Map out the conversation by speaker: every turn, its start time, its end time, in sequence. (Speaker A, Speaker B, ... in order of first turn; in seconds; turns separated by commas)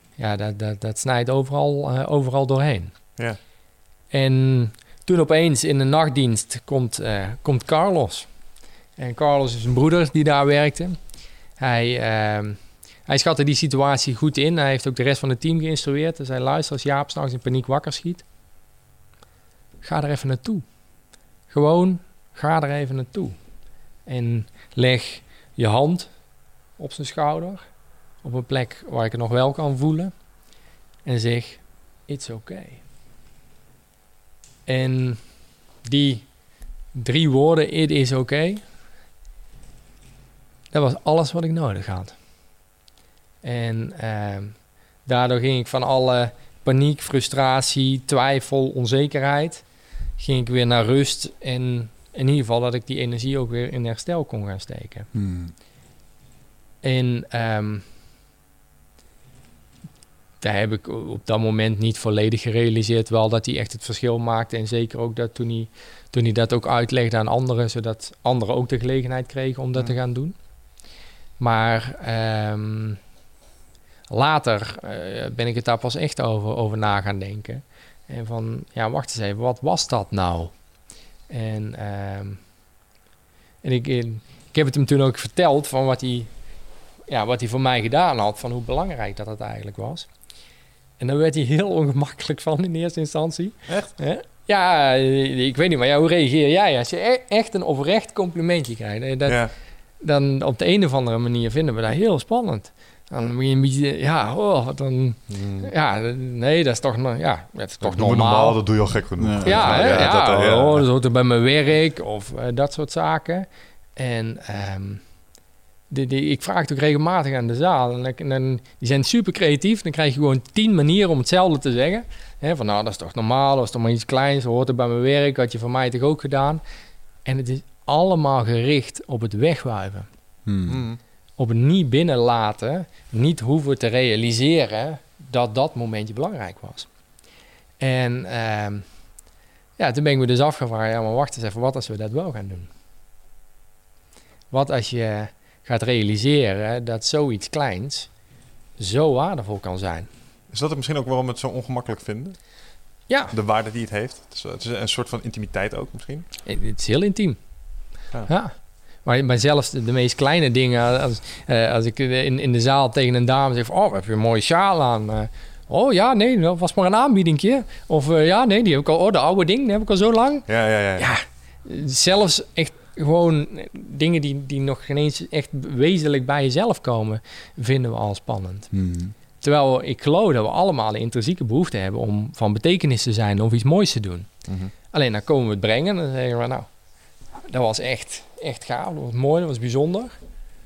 Speaker A: 0.1-3.2, Speaker A: 4.1-8.3, Speaker A: 9.0-11.0, Speaker A: 11.6-18.2, Speaker A: 19.8-20.6, Speaker A: 21.5-23.4, Speaker A: 24.1-26.1, Speaker A: 26.8-27.6, Speaker A: 28.2-30.1, Speaker A: 31.0-32.8, Speaker A: 34.6-35.3, Speaker A: 35.8-36.3, Speaker A: 36.9-38.6, Speaker A: 40.7-42.2, Speaker A: 43.4-49.6, Speaker A: 50.2-55.1, Speaker B: 55.1-55.5, Speaker A: 56.8-57.8, Speaker A: 60.4-70.3, Speaker A: 71.4-73.0, Speaker A: 74.1-80.6, Speaker A: 81.3-82.4, Speaker A: 83.6-86.3, Speaker A: 87.1-90.1, Speaker A: 91.0-108.6, Speaker C: 93.7-93.9, Speaker C: 99.2-99.5, Speaker C: 105.3-105.7, Speaker C: 107.8-110.8, Speaker B: 109.2-110.0, Speaker A: 109.4-115.0, Speaker A: 115.9-126.6, Speaker A: 127.2-130.1, Speaker B: 130.4-130.8, Speaker C: 130.7-131.0, Speaker A: 131.4-136.9, Speaker A: 137.8-138.9, Speaker A: 139.8-142.7, Speaker A: 144.5-148.1, Speaker A: 148.8-150.1, Speaker C: 150.5-152.5, Speaker A: 153.1-153.3, Speaker C: 153.3-156.2, Speaker A: 156.4-157.4, Speaker A: 158.3-178.7, Speaker C: 170.5-171.1, Speaker B: 178.7-179.1, Speaker A: 179.4-186.7, Speaker C: 184.5-184.7, Speaker A: 187.5-190.1